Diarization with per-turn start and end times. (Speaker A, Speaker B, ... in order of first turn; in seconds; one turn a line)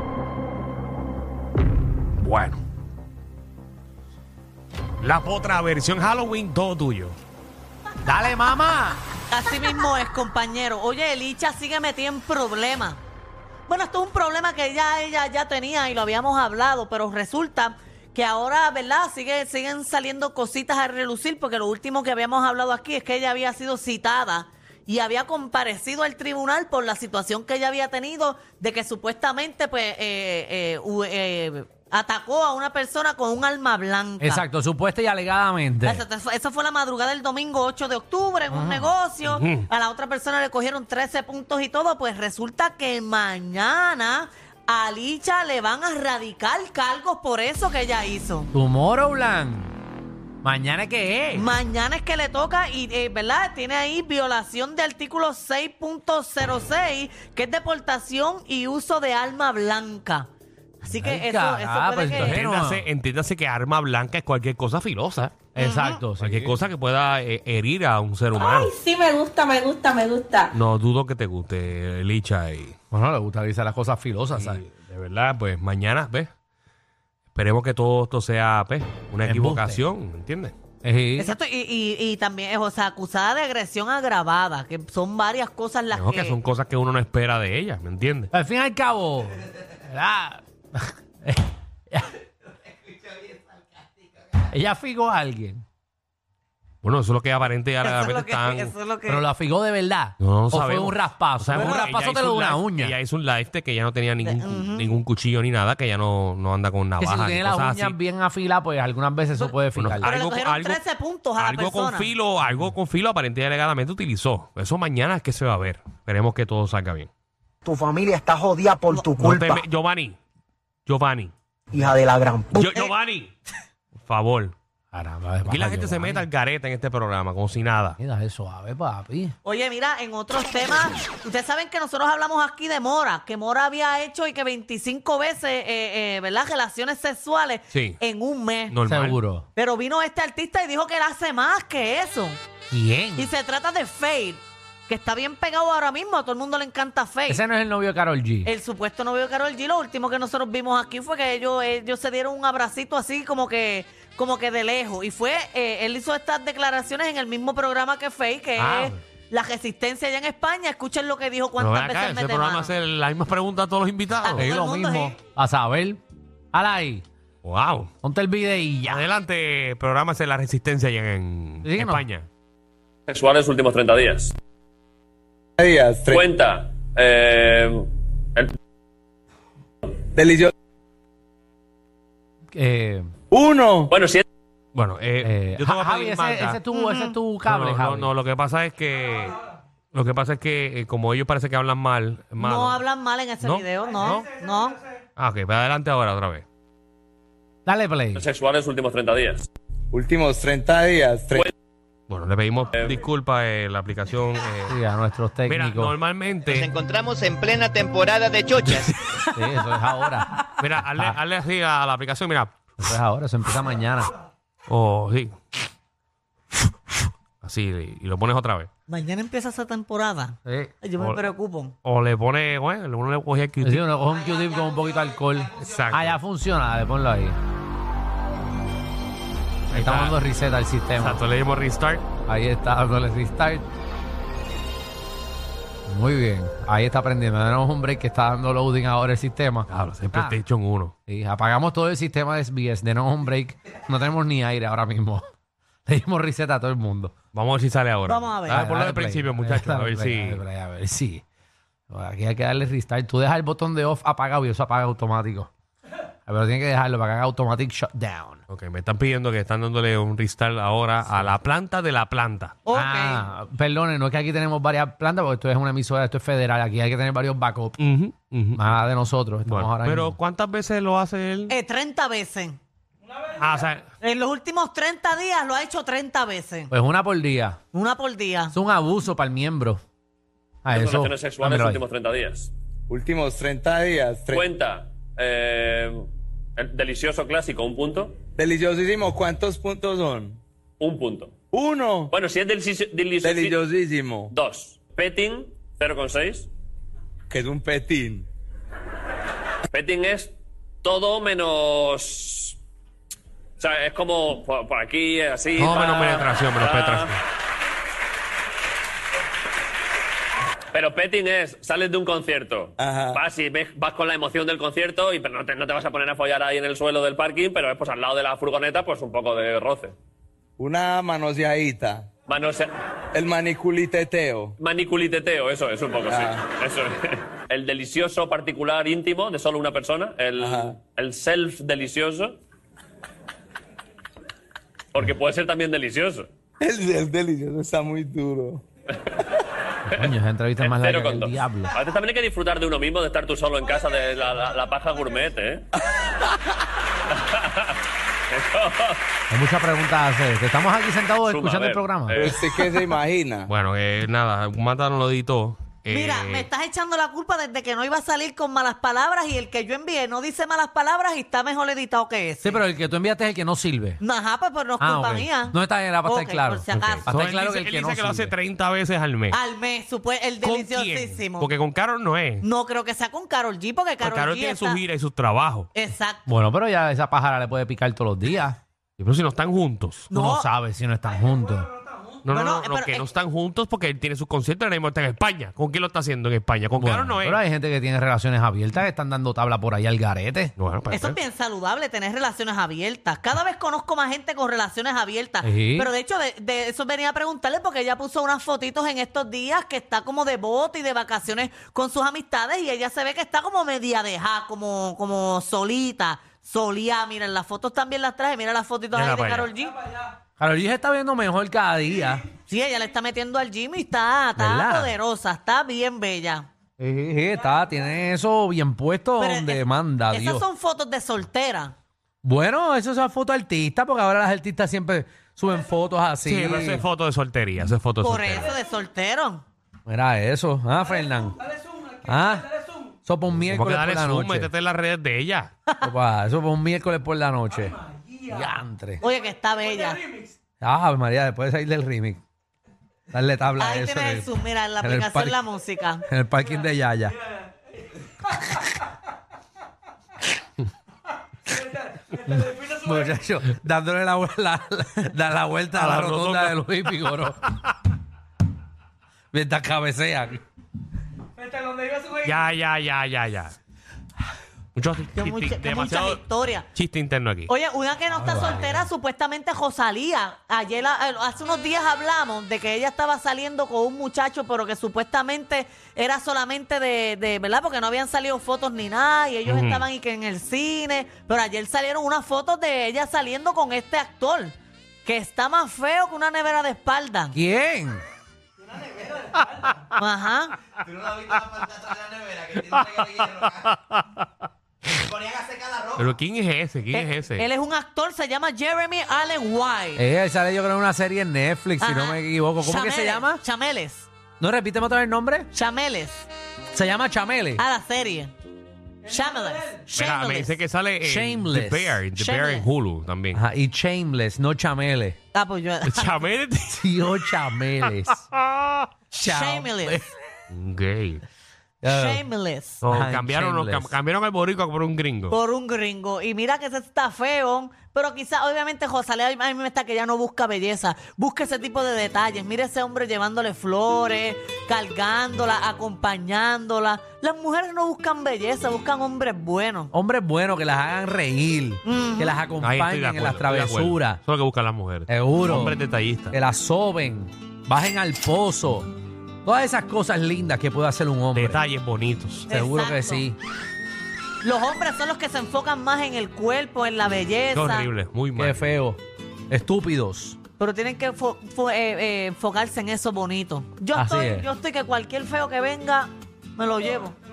Speaker A: 2.2-2.6
Speaker A: 5.0-7.2
Speaker B: 8.0-9.0
Speaker C: 9.3-13.0
Speaker C: 13.7-34.4
Speaker B: 34.2-36.0
Speaker C: 35.8-48.5
Speaker B: 38.5-38.9
Speaker A: 39.3-39.7
Speaker B: 48.5-49.8
Speaker B: 50.4-51.5
Speaker C: 51.3-60.3
Speaker C: 60.8-62.4
Speaker B: 61.0-62.9
Speaker A: 62.2-65.4
Speaker B: 65.5-66.6
Speaker C: 65.6-66.0
Speaker A: 66.2-68.7
Speaker D: 68.3-70.5
Speaker A: 70.5-72.8
Speaker B: 72.9-74.6
Speaker A: 74.3-76.3
Speaker A: 77.3-80.5
Speaker B: 79.2-79.8
Speaker B: 80.8-81.3
Speaker C: 81.2-86.4
Speaker A: 85.9-88.3
Speaker B: 88.3-92.1
Speaker B: 94.3-95.6
Speaker A: 96.8-98.7
Speaker C: 97.8-99.2
Speaker B: 99.1-102.9
Speaker A: 100.2-108.0
Speaker C: 101.6-101.8
Speaker C: 104.2-104.9
Speaker B: 107.0-110.1
Speaker A: 109.4-110.8
Speaker C: 110.0-112.1
Speaker A: 111.4-117.1
Speaker E: 117.7-119.3
Speaker A: 119.2-120.2
Speaker A: 120.8-121.3
Speaker E: 121.9-122.5
Speaker A: 122.5-123.3
Speaker A: 124.0-124.5
Speaker B: 124.9-126.2
Speaker A: 125.5-128.0
Speaker B: 128.0-129.3
Speaker C: 129.4-138.8
Speaker A: 137.7-138.0
Speaker A: 138.7-139.2
Speaker B: 138.8-139.4
Speaker C: 139.6-142.4
Speaker B: 142.7-143.3
Speaker C: 143.2-147.4
Speaker B: 147.3-148.5
Speaker C: 148.4-162.7
Speaker A: 158.6-158.9
Speaker A: 161.6-164.4
Speaker C: 164.2-165.2
Speaker B: 164.3-166.0
Speaker B: 166.5-167.0
Speaker A: 167.4-167.9
Speaker B: 168.0-169.1
Speaker A: 168.9-172.2
Speaker B: 171.6-172.0
Speaker F: 173.1-174.3
Speaker G: 175.6-176.3
Speaker F: 176.1-178.5
Speaker G: 180.1-180.5
Speaker B: 182.5-183.1
Speaker G: 183.3-183.9
Speaker F: 183.9-184.2
Speaker A: 184.7-186.6
Speaker B: 185.2-188.1
Speaker C: 186.7-187.2
Speaker A: 187.4-189.4
Speaker A: 189.9-192.8
Speaker C: 192.4-194.8
Speaker A: 193.4-194.2
Speaker A: 195.2-196.4
Speaker B: 197.7-198.2
Speaker F: 198.1-199.5
Speaker G: 199.9-201.5
Speaker A: 202.1-204.8
Speaker B: 204.7-205.9
Speaker A: 205.5-206.7
Speaker H: 206.5-209.0
Speaker B: 208.6-210.4
Speaker A: 210.6-212.5
Speaker B: 212.8-214.1
Speaker A: 214.7-215.4
Speaker A: 217.4-218.7
Speaker C: 218.9-221.7
Speaker B: 220.4-220.7
Speaker A: 221.8-223.9
Speaker B: 223.6-227.3
Speaker A: 225.7-226.2
Speaker A: 229.7-230.2
Speaker B: 229.7-231.2
Speaker A: 231.0-232.0
Speaker B: 232.3-233.6
Speaker B: 235.9-240.4
Speaker A: 239.7-240.9
Speaker B: 241.1-245.2
Speaker B: 245.9-247.1
Speaker A: 247.3-250.4
Speaker C: 248.1-248.6
Speaker B: 248.5-251.2
Speaker B: 251.9-255.5
Speaker B: 256.3-258.4
Speaker A: 258.5-262.6
Speaker C: 262.6-263.2
Speaker B: 262.7-267.8
Speaker A: 267.8-268.6
Speaker B: 268.5-270.2
Speaker A: 269.4-271.5
Speaker C: 271.5-272.6
Speaker A: 273.4-273.9
Speaker C: 274.0-276.7
Speaker B: 276.7-277.6
Speaker C: 277.7-278.5
Speaker B: 278.5-279.8
Speaker B: 280.6-281.8
Speaker F: 280.7-282.5
Speaker G: 282.9-284.5
Speaker F: 284.3-286.0
Speaker F: 286.6-288.2
Speaker G: 288.4-290.4
Speaker F: 290.8-291.3
Speaker G: 291.5-292.1
Speaker F: 292.1-293.6
Speaker G: 293.2-294.3
Speaker F: 294.3-296.5
Speaker G: 297.3-298.3
Speaker F: 299.7-300.3
Speaker F: 300.8-302.6
Speaker F: 303.6-307.1
Speaker A: 305.6-307.2
Speaker F: 310.7-319.9
Speaker G: 312.8-313.2
Speaker G: 320.6-322.1
Speaker F: 322.3-322.7
Speaker G: 323.1-324.5
Speaker F: 324.6-332.4
Speaker G: 326.1-326.4
Speaker G: 330.4-330.8
Speaker F: 334.9-336.3
Speaker G: 336.6-338.6
Speaker B: 339.9-341.7
Speaker F: 340.6-345.6
Speaker F: 347.1-347.7
Speaker F: 348.3-349.0
Speaker B: 349.3-352.3
Speaker F: 351.2-352.4
Speaker G: 352.1-353.5
Speaker A: 353.5-356.5
Speaker C: 355.9-362.6
Speaker B: 362.4-364.0
Speaker C: 364.0-367.1
Speaker B: 364.8-368.3
Speaker A: 366.7-369.4
Speaker C: 369.3-371.5
Speaker A: 370.4-372.4
Speaker C: 372.4-374.8
Speaker A: 374.0-375.7
Speaker C: 375.7-376.2
Speaker B: 376.3-378.6
Speaker A: 379.0-380.1
Speaker C: 380.1-380.5
Speaker B: 380.1-381.7
Speaker A: 382.2-387.4
Speaker C: 382.3-383.1
Speaker B: 386.8-390.5
Speaker A: 390.6-391.2
Speaker C: 390.9-409.8
Speaker B: 395.4-395.9
Speaker A: 408.9-409.5
Speaker B: 410.4-412.2
Speaker C: 412.5-416.5
Speaker B: 414.4-414.9
Speaker B: 416.8-420.4
Speaker C: 419.2-421.7
Speaker B: 422.2-426.8
Speaker A: 426.2-428.5
Speaker C: 428.0-429.4
Speaker B: 429.9-434.5
Speaker A: 433.3-435.5
Speaker B: 435.8-439.0
Speaker C: 439.0-440.0
Speaker B: 440.6-442.2
Speaker B: 443.1-445.4
Speaker C: 443.6-446.1
Speaker B: 446.0-447.2
Speaker B: 448.2-448.7
Speaker B: 452.1-457.4
Speaker A: 455.7-457.1
Speaker B: 459.3-460.4
Speaker A: 462.2-463.5
Speaker A: 464.8-466.2
Speaker C: 465.1-466.7
Speaker A: 466.7-467.5
Speaker C: 467.5-484.5
Speaker B: 468.1-468.9
Speaker A: 479.4-479.9
Speaker C: 485.0-487.4
Speaker B: 487.3-488.0
Speaker C: 489.9-490.5
Speaker H: 491.4-493.4
Speaker A: 493.2-494.2
Speaker H: 495.2-495.9
Speaker A: 496.0-497.4
Speaker C: 496.9-500.0
Speaker B: 499.9-503.4
Speaker C: 501.8-504.1
Speaker B: 504.4-505.5
Speaker C: 505.5-506.3
Speaker B: 506.7-507.6
Speaker C: 507.6-508.3
Speaker C: 509.1-510.6
Speaker A: 509.9-513.4
Speaker B: 511.0-512.0
Speaker C: 512.1-512.7
Speaker B: 513.3-515.2
Speaker C: 515.3-516.1
Speaker A: 515.8-518.9
Speaker B: 516.7-518.2
Speaker C: 519.1-520.0
Speaker B: 519.1-520.1
Speaker A: 520.5-521.2
Speaker B: 521.8-522.2
Speaker C: 521.8-522.8
Speaker A: 522.8-525.4
Speaker B: 522.8-523.9
Speaker C: 525.3-539.9
Speaker B: 539.9-544.2
Speaker C: 541.8-542.4
Speaker A: 542.6-546.4
Speaker B: 545.1-545.8
Speaker B: 546.3-548.9
Speaker B: 549.4-551.6
Speaker A: 551.3-552.5
Speaker B: 552.5-553.4
Speaker C: 552.5-553.2
Speaker C: 554.4-557.9
Speaker A: 557.5-558.6
Speaker B: 558.4-560.4
Speaker C: 560.6-567.1
Speaker B: 563.9-564.5